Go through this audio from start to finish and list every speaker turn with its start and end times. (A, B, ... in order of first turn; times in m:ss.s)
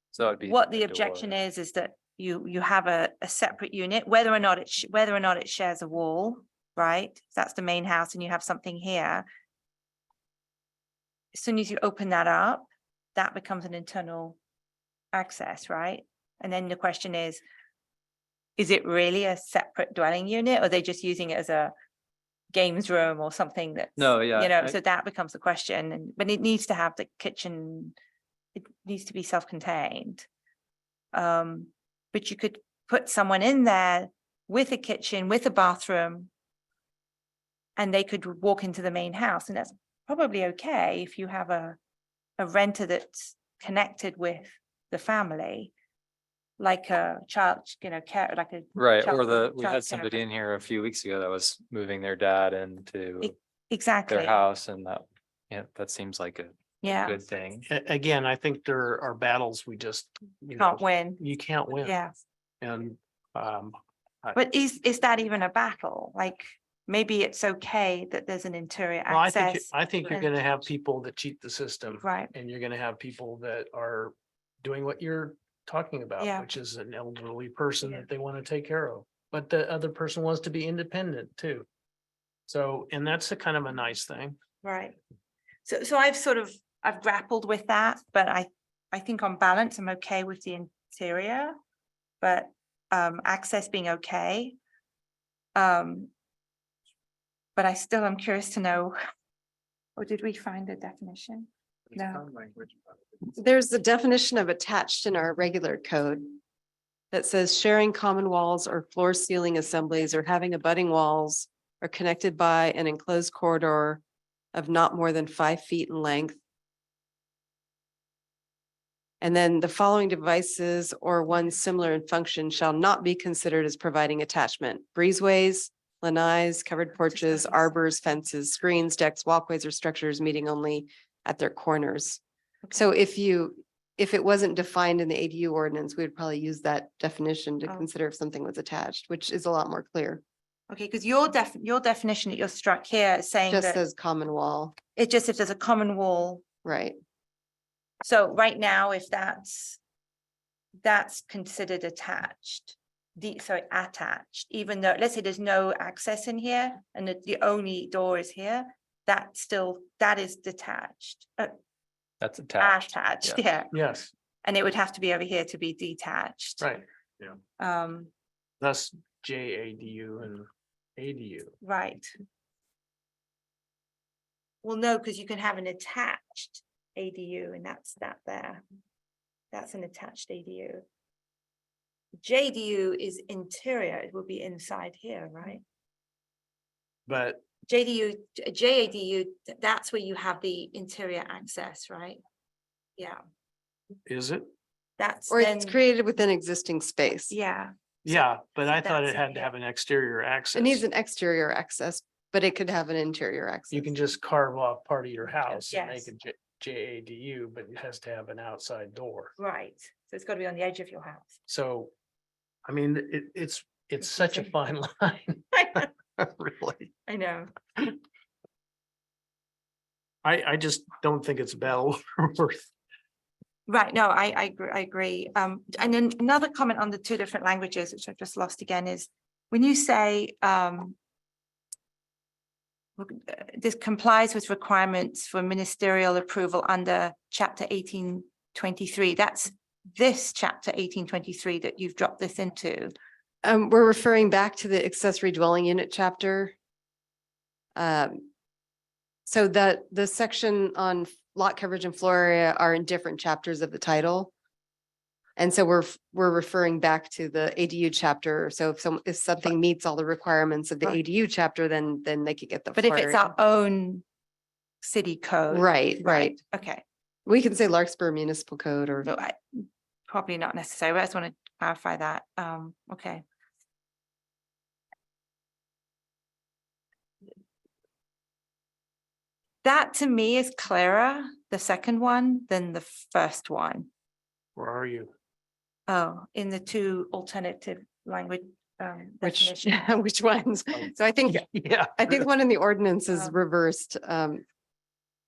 0:00.1-0:01.3 A
0:00.5-0:09.2 B
0:11.3-0:14.4 B
0:15.1-0:17.4 B
0:18.6-0:21.7 B
0:22.5-0:28.0 B
0:24.0-0:24.7 A
0:28.5-0:30.2 B
0:31.1-0:36.3 B
0:37.8-0:41.8 B
0:42.4-0:45.7 B
0:46.6-0:50.2 B
0:48.8-0:53.3 A
0:53.2-0:54.4 B
0:54.1-0:57.6 A
0:56.8-0:57.2 B
0:57.7-1:02.0 C
1:00.6-1:01.2 B
1:01.8-1:02.1 B
1:02.6-1:04.4 C
1:04.3-1:10.3 B
1:09.1-1:21.6 C
1:12.0-1:12.3 B
1:16.2-1:16.5 B
1:22.5-1:24.4 C
1:24.6-1:25.0 B
1:25.6-1:31.6 B
1:32.2-1:34.6 B
1:35.6-1:36.1 B
1:37.6-1:39.0 B
1:40.0-1:42.4 B
1:43.3-1:46.4 D
1:47.1-1:54.0 D
1:54.5-1:56.4 D
1:59.2-2:12.2 D
2:07.1-2:07.8 B
2:12.6-2:12.9 B
2:12.7-2:20.2 D
2:20.7-2:23.8 B
2:23.5-2:24.8 D
2:24.9-2:26.4 B
2:26.6-2:26.9 D
2:28.0-2:29.8 B
2:30.8-2:41.5 B
2:42.2-2:43.4 A
2:42.6-2:43.7 B
2:43.7-2:44.1 C
2:44.4-2:46.7 B
2:46.6-2:47.4 C
2:47.6-2:48.1 B
2:48.6-2:51.5 C
2:51.6-2:52.1 B
2:54.6-2:58.6 B
2:59.5-3:00.8 B
3:02.2-3:05.6 B
3:07.1-3:07.4 C
3:07.6-3:12.2 B
3:14.0-3:14.4 C
3:15.0-3:15.8 B
3:15.3-3:17.4 D
3:17.3-3:19.5 B
3:18.0-3:20.8 C
3:20.5-3:23.9 D
3:23.7-3:29.3 C
3:25.7-3:26.1 B
3:29.4-3:31.3 B
3:31.5-3:31.9 C
3:32.6-3:36.9 C
3:34.0-3:34.5 B
3:35.5-3:35.9 B
3:37.1-3:37.5 B
3:40.2-3:42.7 C
3:43.7-3:51.0 B
3:53.0-4:02.9 B
4:03.4-4:06.5 D
4:07.8-4:08.3 D
4:09.2-4:14.3 D
4:15.4-4:23.3 D
4:22.7-4:24.0 B
4:24.8-4:26.8 B
4:25.5-4:26.4 D
4:27.2-4:29.1 D
4:29.0-4:33.2 B
4:39.6-4:43.9 B
4:44.6-4:45.1 C
4:45.9-4:49.8 B
4:49.2-4:54.4 D
4:51.3-4:52.2 C